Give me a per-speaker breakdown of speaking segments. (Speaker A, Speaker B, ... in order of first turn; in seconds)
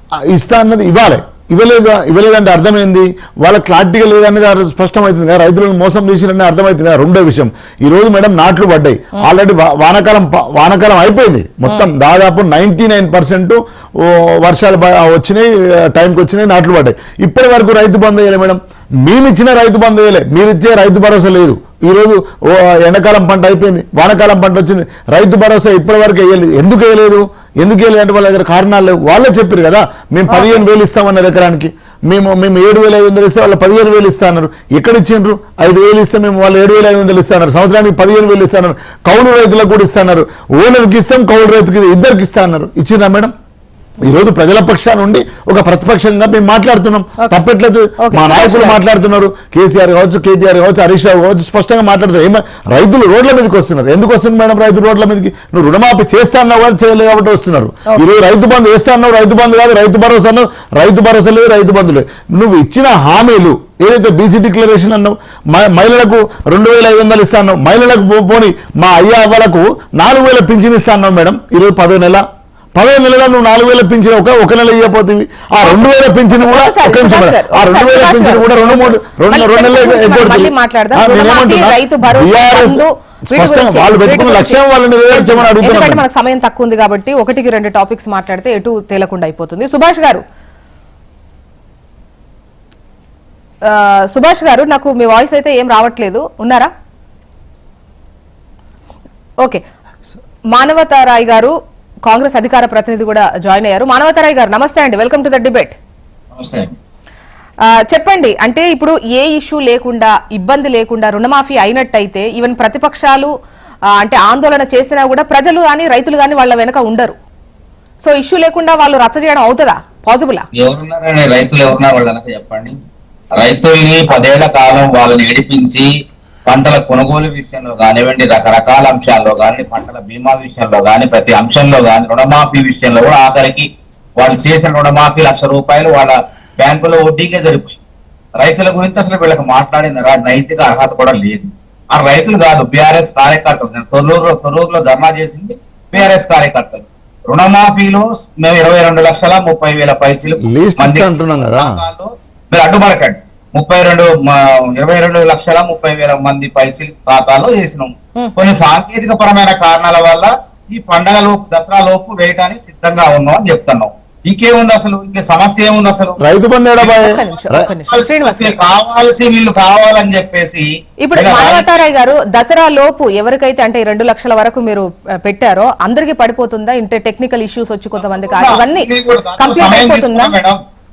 Speaker A: 0.3-43.3, 44.0-72.2, 72.8-86.0, 150.4-151.8, 166.2-167.6
Speaker B: 30.3-30.6, 48.0-48.8, 76.4-78.7, 79.3-84.6, 85.1-90.2, 93.7-96.7, 100.5-105.8, 107.7-113.3, 114.0-117.2, 118.0-120.5, 167.0-168.7, 171.0-180.3
Speaker C: 106.3-106.8, 120.5-122.8, 123.3-125.9, 126.5-137.8, 138.4-166.2, 166.8-171.7, 178.0-180.6